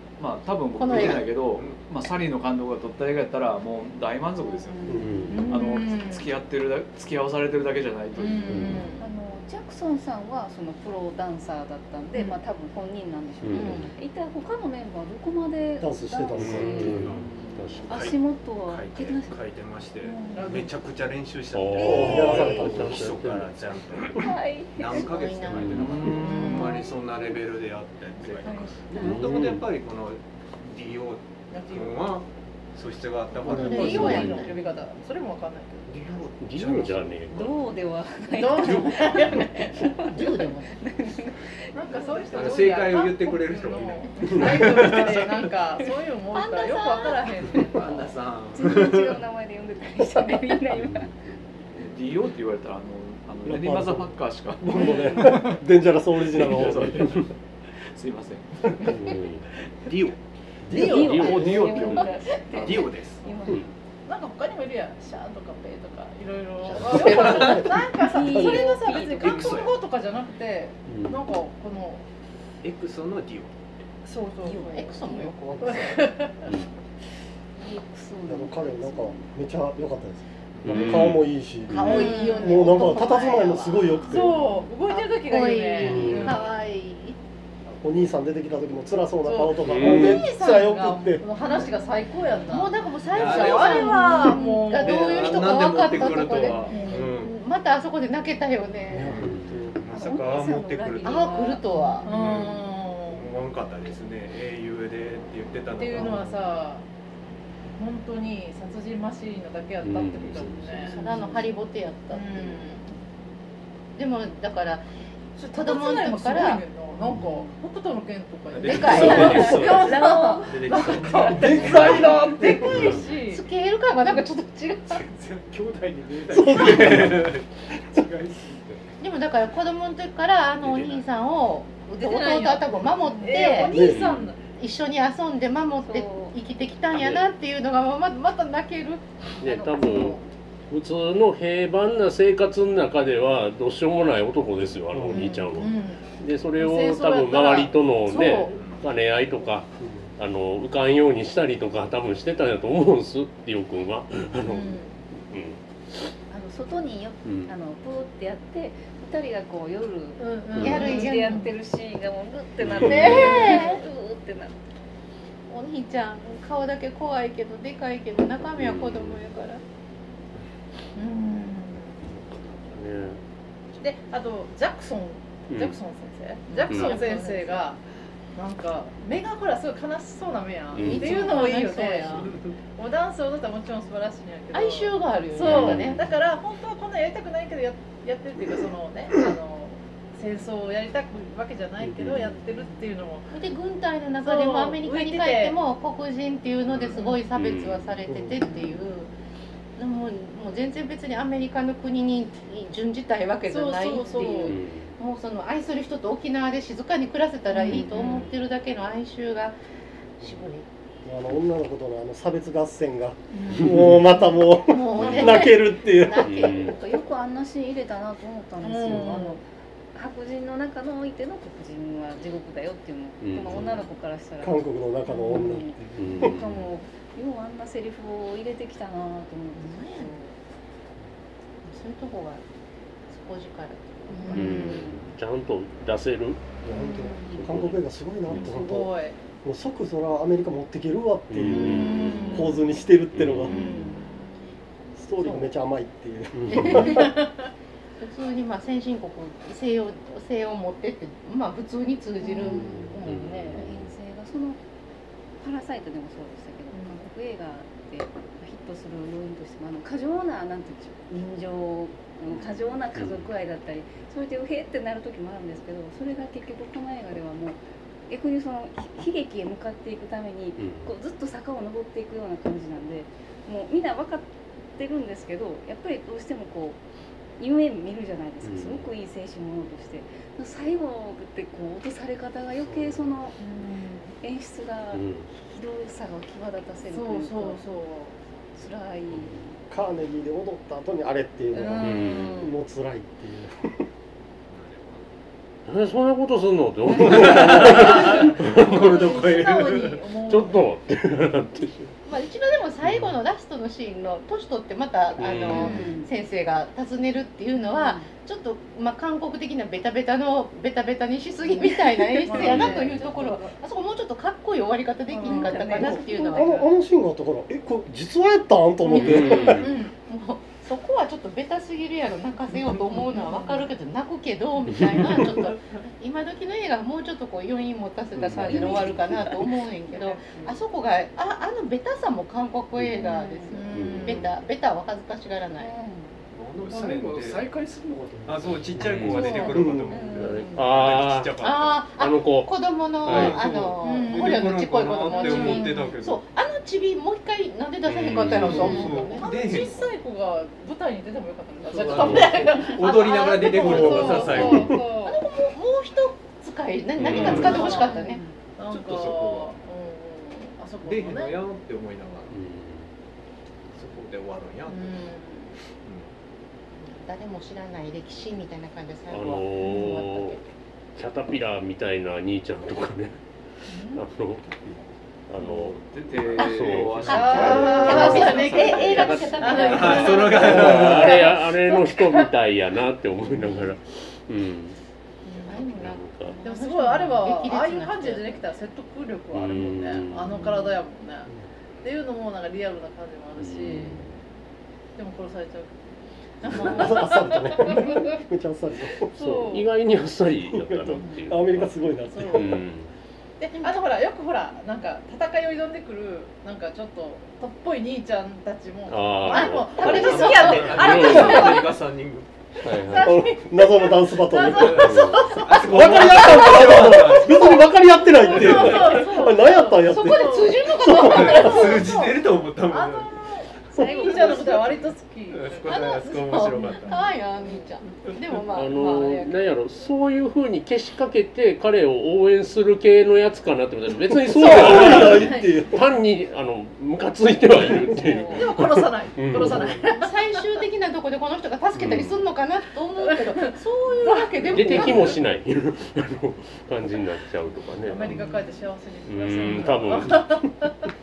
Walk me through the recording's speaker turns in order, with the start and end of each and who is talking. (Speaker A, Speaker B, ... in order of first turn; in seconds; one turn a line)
Speaker A: 0.2-8.8
Speaker B: 0.8-1.3
Speaker C: 1.0-1.8
Speaker D: 4.5-5.2
Speaker E: 4.9-5.2
Speaker F: 5.0-5.5
Speaker G: 5.3-6.3
Speaker G: 8.2-9.1
Speaker F: 8.5-8.8
Speaker D: 9.0-17.1
Speaker F: 13.4-13.9
Speaker B: 13.5-13.9
Speaker E: 15.8-17.1
Speaker F: 16.4-18.1
Speaker C: 16.7-17.2
Speaker A: 17.1-17.8
Speaker D: 17.9-19.4
Speaker C: 17.9-34.4
Speaker D: 20.0-20.6
Speaker G: 20.3-20.7
Speaker F: 21.5-23.5
Speaker D: 21.8-22.6
Speaker E: 21.8-23.0
Speaker D: 24.2-25.1
Speaker B: 24.8-26.9
Speaker F: 25.5-26.0
Speaker A: 25.7-26.7
Speaker G: 26.2-26.9
Speaker D: 26.3-26.9
Speaker A: 28.2-28.6
Speaker D: 28.4-29.2
Speaker F: 29.0-29.6
Speaker G: 31.5-32.1
Speaker B: 33.4-34.6
Speaker G: 33.4-36.0
Speaker D: 33.9-34.3
Speaker F: 33.9-34.3
Speaker C: 35.9-37.2
Speaker F: 36.4-37.6
Speaker D: 37.3-42.6
Speaker G: 38.4-40.4
Speaker B: 40.1-40.7
Speaker G: 41.7-48.2
Speaker C: 42.3-45.5
Speaker D: 46.3-48.0
Speaker C: 47.7-49.2
Speaker D: 48.5-51.1
Speaker F: 50.7-51.1
Speaker A: 51.8-55.6
Speaker E: 53.5-57.2
Speaker D: 54.7-55.3
Speaker A: 56.2-57.3
Speaker A: 57.9-59.0
Speaker F: 58.8-59.5
Speaker C: 59.9-60.2
Speaker E: 60.7-61.9
Speaker A: 60.7-62.9
Speaker D: 60.7-63.6
Speaker F: 60.8-62.0
Speaker C: 62.6-63.2
Speaker G: 64.1-72.0
Speaker E: 66.8-68.6
Speaker B: 67.0-67.4
Speaker C: 67.1-67.7
Speaker D: 67.1-69.6
Speaker C: 69.0-69.8
Speaker F: 70.9-71.2
Speaker C: 72.6-73.6
Speaker G: 74.0-76.5
Speaker D: 74.4-75.3
Speaker B: 74.6-76.2
Speaker F: 76.5-76.7
Speaker D: 77.6-79.3
Speaker E: 78.3-84.4
Speaker C: 80.6-81.0
Speaker F: 80.6-81.8
Speaker B: 81.7-87.2
Speaker G: 81.8-82.7
Speaker G: 84.1-86.5
Speaker F: 85.8-86.4
Speaker E: 87.8-91.3
Speaker G: 89.2-97.1
Speaker F: 89.6-90.3
Speaker B: 92.5-99.3
Speaker C: 93.1-97.4
Speaker E: 98.9-99.8
Speaker C: 99.0-101.4
Speaker F: 99.1-99.6
Speaker D: 99.9-102.1
Speaker B: 101.0-102.4
Speaker G: 101.8-103.3
Speaker C: 102.1-106.3
Speaker G: 105.8-106.9
Speaker G: 107.8-111.4
Speaker F: 109.8-110.9
Speaker B: 110.9-112.6
Speaker D: 111.1-111.4
Speaker G: 112.1-112.9
Speaker B: 114.0-114.8
Speaker G: 115.4-123.5
Speaker B: 115.5-116.6
Speaker C: 118.5-122.2
Speaker B: 118.6-119.9
Speaker D: 119.0-121.2
Speaker E: 121.3-122.9
Speaker H: 121.5-121.8
Speaker F: 122.7-123.1
Speaker B: 122.8-125.0
Speaker H: 124.9-128.8
Speaker E: 126.3-127.3
Speaker C: 126.4-127.4
Speaker B: 129.0-133.9
Speaker C: 130.6-131.1
Speaker G: 132.0-134.4
Speaker D: 133.1-133.6
Speaker E: 133.7-134.1
Speaker F: 133.8-134.3
Speaker B: 134.5-139.2
Speaker D: 135.8-136.4
Speaker F: 136.9-137.2
Speaker F: 139.4-156.1
Speaker G: 139.8-140.2
Speaker E: 144.9-145.3
Speaker G: 145.1-148.6
Speaker C: 148.5-148.8
Speaker E: 149.8-150.1
Speaker G: 154.4-155.0
Speaker D: 156.3-164.5
Speaker F: 157.2-157.5
Speaker G: 160.2-161.5
Speaker F: 160.6-160.9
Speaker B: 160.6-161.4
Speaker F: 162.6-163.6
Speaker B: 162.7-163.8
Speaker B: 165.5-169.6
Speaker F: 168.6-169.2
Speaker G: 170.9-172.0
Speaker F: 172.1-173.2
Speaker G: 173.8-177.8
Speaker F: 175.5-175.8
Speaker B: 176.5-177.6
Speaker F: 176.7-176.9
Speaker G: 178.3-193.3
Speaker F: 180.7-181.3
Speaker B: 180.8-182.3
Speaker B: 184.5-186.1
Speaker F: 185.4-186.1
Speaker F: 191.9-192.4
Speaker B: 193.3-199.1
Speaker G: 194.2-195.6
Speaker C: 196.7-197.0
Speaker F: 197.3-197.9
Speaker E: 198.1-198.4
Speaker B: 199.8-209.6
Speaker G: 203.5-204.6
Speaker F: 204.4-205.0
Speaker G: 207.6-208.3
Speaker D: 207.7-208.2
Speaker B: 210.2-210.7
Speaker E: 211.1-216.4
Speaker G: 213.3-213.8
Speaker F: 213.6-213.9
Speaker B: 214.5-217.0
Speaker F: 215.0-215.5
Speaker D: 215.2-230.2
Speaker F: 216.2-216.8
Speaker G: 218.6-219.4
Speaker F: 223.2-223.8
Speaker E: 224.4-226.3
Speaker F: 226.0-226.7
Speaker B: 229.6-230.2
Speaker B: 231.7-232.4
Speaker B: 233.1-234.9
Speaker D: 234.1-234.9
Speaker G: 234.2-234.8
Speaker F: 234.3-236.4
Speaker E: 236.6-238.9
Speaker D: 236.8-237.4
Speaker F: 237.3-238.7
Speaker G: 238.3-239.2
Speaker E: 239.4-243.6
Speaker F: 241.3-242.6
Speaker G: 241.5-242.6
Speaker F: 243.1-243.8
Speaker D: 243.5-243.9
Speaker G: 243.5-244.0
Speaker E: 245.0-247.1
Speaker B: 245.2-245.5
Speaker F: 246.4-247.0
Speaker B: 246.6-247.1
Speaker G: 246.9-247.5
Speaker B: 248.0-253.0
Speaker D: 252.2-254.6
Speaker F: 253.0-253.9
Speaker D: 255.4-276.8
Speaker G: 256.7-257.0
Speaker F: 262.9-263.3
Speaker F: 270.6-270.9
Speaker D: 277.4-283.4
Speaker F: 278.4-278.9
Speaker G: 283.4-284.1
Speaker D: 284.2-287.6
Speaker F: 284.9-285.3
Speaker G: 286.9-288.2
Speaker D: 288.6-289.6
Speaker F: 289.1-289.4
Speaker E: 289.7-293.8
Speaker G: 291.5-292.1
Speaker F: 291.8-292.5
Speaker D: 291.9-292.5
Speaker C: 294.5-295.1
Speaker F: 295.7-299.3
Speaker C: 297.0-300.0
Speaker G: 297.9-300.7
Speaker F: 300.2-301.9
Speaker B: 302.1-316.6
Speaker F: 305.2-305.9
Speaker D: 305.5-306.1
Speaker D: 307.6-308.1
Speaker G: 311.5-313.6
Speaker F: 312.3-313.1
Speaker D: 315.1-316.7
Speaker G: 315.2-316.1
Speaker E: 315.8-319.7
Speaker B: 318.9-335.7
Speaker F: 318.9-319.8
Speaker G: 319.5-319.9
Speaker D: 323.1-323.6
Speaker F: 324.7-325.5
Speaker F: 328.2-329.3
Speaker D: 328.3-330.5
Speaker G: 329.9-330.5
Speaker D: 332.9-333.6
Speaker G: 333.5-334.3
Speaker F: 333.8-334.3
Speaker D: 335.6-336.1
Speaker C: 336.3-337.5
Speaker H: 336.6-339.2
Speaker C: 338.3-341.8
Speaker F: 338.8-339.5
Speaker D: 339.1-340.6
Speaker E: 339.4-340.1
Speaker F: 340.1-342.5
Speaker B: 341.4-349.7
Speaker F: 343.0-343.4
Speaker C: 343.1-346.2
Speaker G: 343.8-345.9
Speaker F: 347.9-348.9
Speaker C: 348.4-350.0
Speaker G: 348.5-355.2
Speaker C: 351.6-354.8
Speaker F: 351.9-352.5
Speaker B: 352.2-358.2
Speaker E: 353.6-354.7
Speaker F: 357.0-357.6
Speaker C: 357.0-357.8
Speaker G: 357.1-361.4
Speaker D: 357.2-358.4
Speaker C: 358.7-359.6
Speaker C: 360.8-362.3
Speaker F: 362.3-362.9
Speaker C: 363.7-365.1
Speaker G: 364.7-365.6
Speaker C: 365.8-366.1
Speaker B: 366.8-370.4
Speaker F: 369.1-370.4
Speaker F: 371.0-373.2
Speaker G: 373.7-374.0
Speaker F: 373.9-374.5
Speaker F: 375.3-378.2
Speaker A: 375.4-379.4
Speaker B: 376.4-381.3
Speaker G: 377.1-382.3
Speaker F: 378.9-384.8
Speaker C: 379.6-381.3
Speaker G: 385.3-385.6
Speaker B: 385.4-388.4
Speaker F: 385.6-386.4
Speaker G: 386.4-394.2
Speaker F: 389.3-390.7
Speaker F: 393.4-394.2
Speaker G: 395.0-398.2
Speaker E: 396.4-399.5
Speaker F: 396.5-397.0
Speaker G: 399.1-399.7
Speaker F: 399.1-402.9
Speaker E: 400.5-402.6
Speaker G: 402.1-402.6
Speaker G: 403.4-411.8
Speaker F: 408.9-411.8
Speaker B: 409.3-410.7
Speaker C: 409.8-412.3
Speaker F: 412.6-413.4
Speaker G: 412.7-415.6
Speaker E: 412.9-421.8
Speaker C: 414.4-417.8
Speaker F: 414.7-415.4
Speaker G: 418.1-427.7
Speaker C: 418.3-419.0
Speaker B: 418.5-422.1
Speaker C: 421.0-423.2
Speaker D: 423.8-424.8
Speaker C: 423.9-424.6
Speaker C: 425.3-427.0
Speaker B: 425.7-429.5
Speaker F: 428.5-439.8
Speaker E: 434.1-435.9
Speaker G: 434.4-435.7
Speaker E: 437.7-438.0
Speaker G: 438.1-440.5
Speaker B: 439.7-445.2
Speaker F: 441.7-442.3
Speaker G: 443.0-445.2
Speaker F: 444.4-448.3
Speaker G: 447.8-450.9
Speaker F: 449.1-450.5